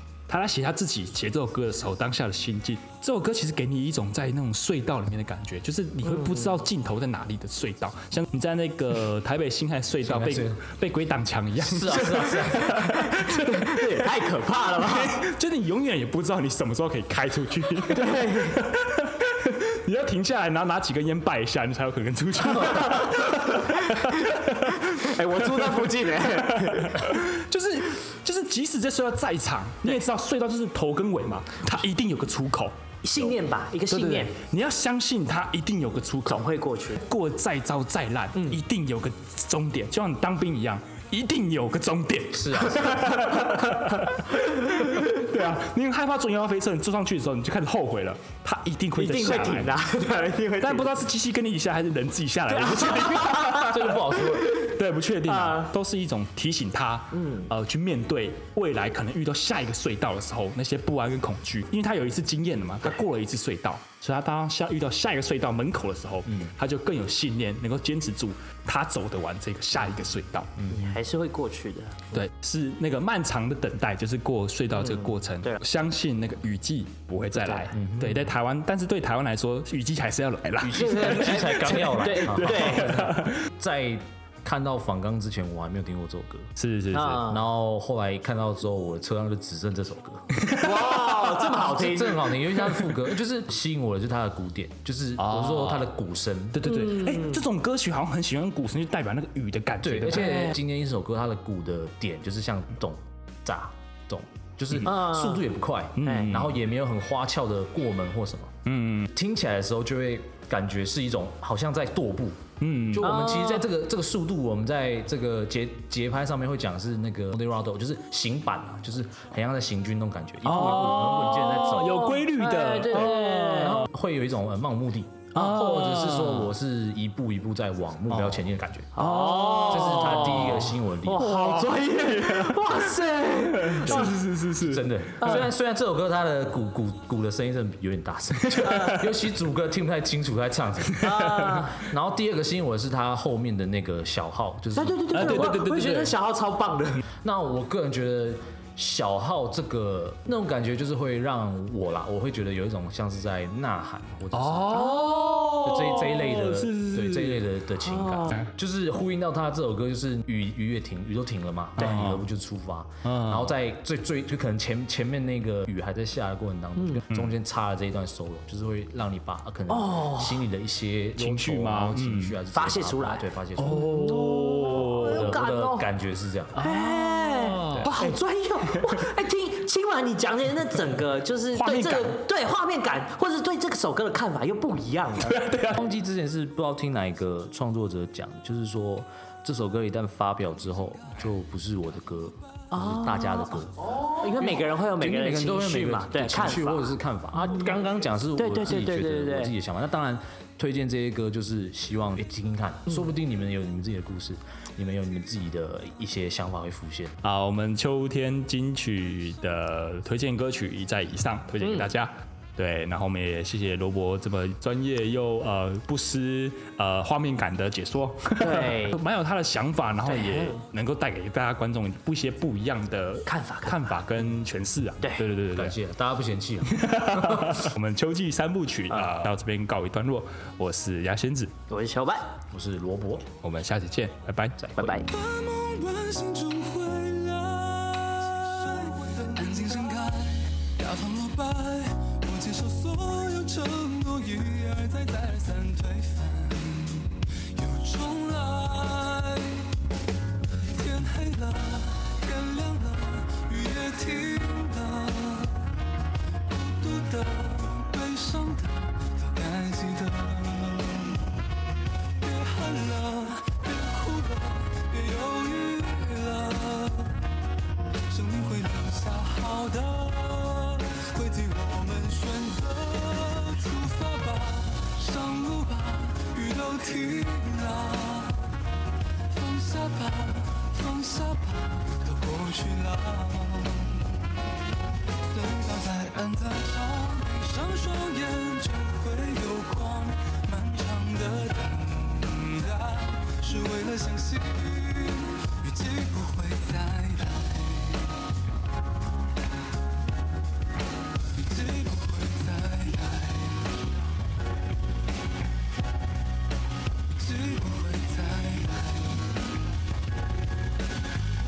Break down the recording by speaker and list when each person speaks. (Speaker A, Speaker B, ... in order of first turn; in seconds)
Speaker A: 0.3-32.8, 33.9-36.5, 37.0-49.8, 50.6-70.5, 72.1-83.4, 86.5-87.3, 90.4-91.1, 95.2-95.9, 96.5-100.5, 106.0-106.5, 108.6-109.1, 112.6-113.1, 120.4-123.8, 125.3-126.5, 129.0-129.7, 131.2-132.6, 133.5-135.4, 141.1-141.5, 145.1-146.1, 154.3-157.4, 161.8-162.2, 163.0-163.5, 171.2-172.4, 173.6-175.3, 176.6-178.2, 178.7-179.1, 181.5-182.2, 185.2-185.8, 207.2-225.8, 226.7-231.5, 233.4-234.6
Speaker B: 6.1-6.6, 12.5-15.2, 17.9-18.6, 22.6-27.1, 33.0-34.3, 36.3-37.0, 43.0-43.8, 49.0-51.0, 52.5-54.6, 55.2-55.7, 57.1-57.5, 70.7-72.2, 74.8-75.6, 77.4-77.7, 80.7-83.0, 86.9-87.4, 90.6-92.4, 96.7-97.4, 104.8-105.4, 106.0-106.4, 113.0-113.7, 120.6-123.9, 125.4-125.7, 128.9-134.2, 135.2-135.5, 138.6-139.0, 141.0-141.8, 144.7-147.0, 154.7-155.9, 157.8-158.4, 166.8-167.0, 169.7-170.4, 172.5-175.9, 176.6-185.4, 192.7-197.8, 198.4-199.5, 211.6-211.9, 218.4-219.0, 220.1-220.6, 223.2-223.9, 231.7-232.3, 234.8-235.1
Speaker C: 10.0-10.6, 11.6-12.9, 42.3-43.1, 53.5-54.5, 66.3-66.5, 70.6-71.0, 77.7-78.2, 80.6-86.5, 87.2-90.3, 91.4-96.7, 99.8-108.6, 109.1-122.2, 122.9-129.0, 129.7-131.5, 133.9-141.1, 141.8-145.6, 147.2-155.0, 155.6-174.3, 174.9-176.6, 185.7-207.2, 225.5-227.6, 232.5-233.3, 234.6-234.9
Speaker D: 235.0-249.7, 250.6-255.6, 256.5-261.2, 262.2-267.2, 268.1-278.4, 279.3-284.1, 285.2-298.2, 301.4-303.8, 307.1-309.4